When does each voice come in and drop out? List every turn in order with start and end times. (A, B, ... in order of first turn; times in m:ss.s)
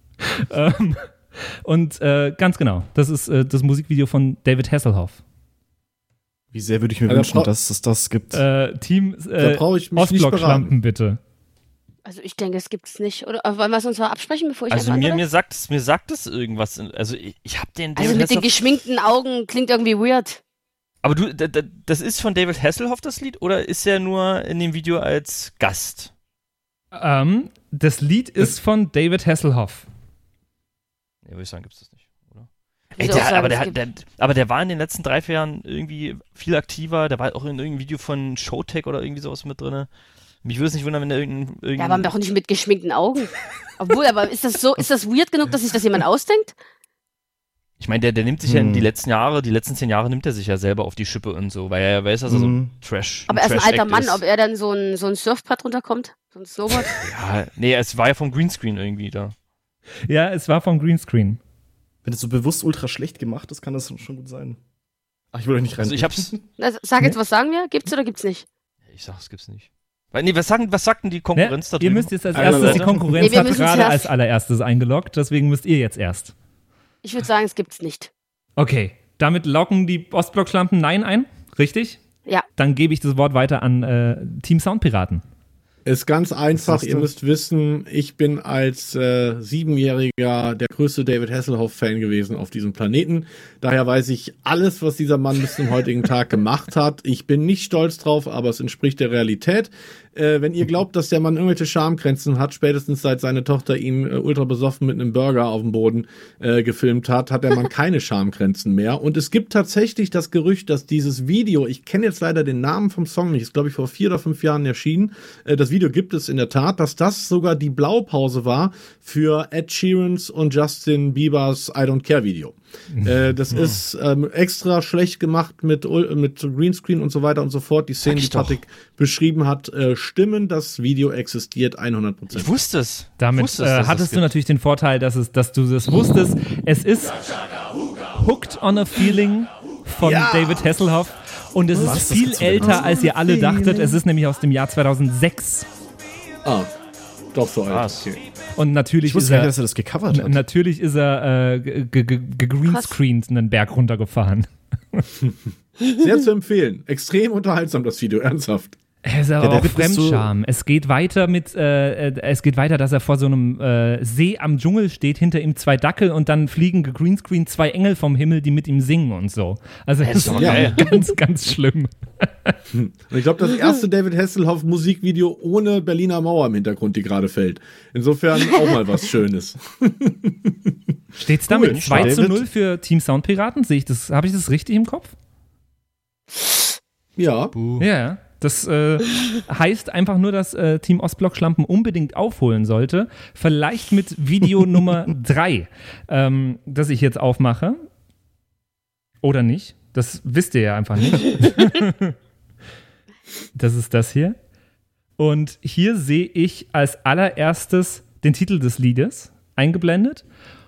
0:00.2-0:01.1 A
0:01.6-0:05.2 A
0:06.5-0:08.4 B
0:07.1-0:07.5 C
0:08.3-0:11.2 A
0:09.4-0:10.7 C
0:12.1-0:15.2 D
0:14.7-0:18.7 E
0:18.0-0:20.4 D
0:21.0-0:26.1 E
0:26.9-0:29.8 A
0:31.2-0:39.9 E
0:33.0-0:33.8 D
0:40.4-0:42.1 E
0:41.8-0:46.6 D
0:47.8-0:54.2 E
0:48.4-0:48.9 B
0:52.3-0:52.7 B
0:53.3-0:57.0 D
0:57.0-0:59.3 E
1:00.1-1:01.4 A
1:02.0-1:04.6 B
1:05.3-1:06.4 B
1:05.8-1:06.3 E
1:06.6-1:08.4 D
1:08.9-1:12.9 E
1:11.4-1:16.3 A
1:12.3-1:12.8 C
1:12.4-1:13.4 B
1:13.2-1:14.1 D
1:17.0-1:18.1 D
1:18.6-1:22.0 A
1:22.6-1:25.2 A
1:25.8-2:12.5 C
1:26.6-1:27.0 B
2:08.0-2:08.6 E
2:12.3-2:14.3 E
2:13.2-2:17.2 A
2:18.1-2:25.7 A
2:20.0-2:20.8 C
2:21.7-2:23.8 B
2:26.4-2:26.7 C
2:27.3-2:28.2 C
2:27.7-2:28.2 E
2:28.6-2:29.5 A
2:29.0-2:30.4 B
2:30.1-2:35.1 A
2:32.7-2:32.9 D
2:35.9-2:38.8 C
2:39.0-2:52.5 A
2:39.4-2:40.3 B
2:50.0-2:51.0 E
2:50.3-2:50.8 C
2:52.7-3:00.8 C
3:01.2-3:05.1 A
3:01.5-3:02.1 C
3:01.6-3:02.5 B
3:07.2-3:07.6 C
3:07.6-3:07.8 E
3:07.8-3:17.8 A
3:19.2-3:22.1 A
3:23.6-3:24.4 A
3:25.2-3:30.2 A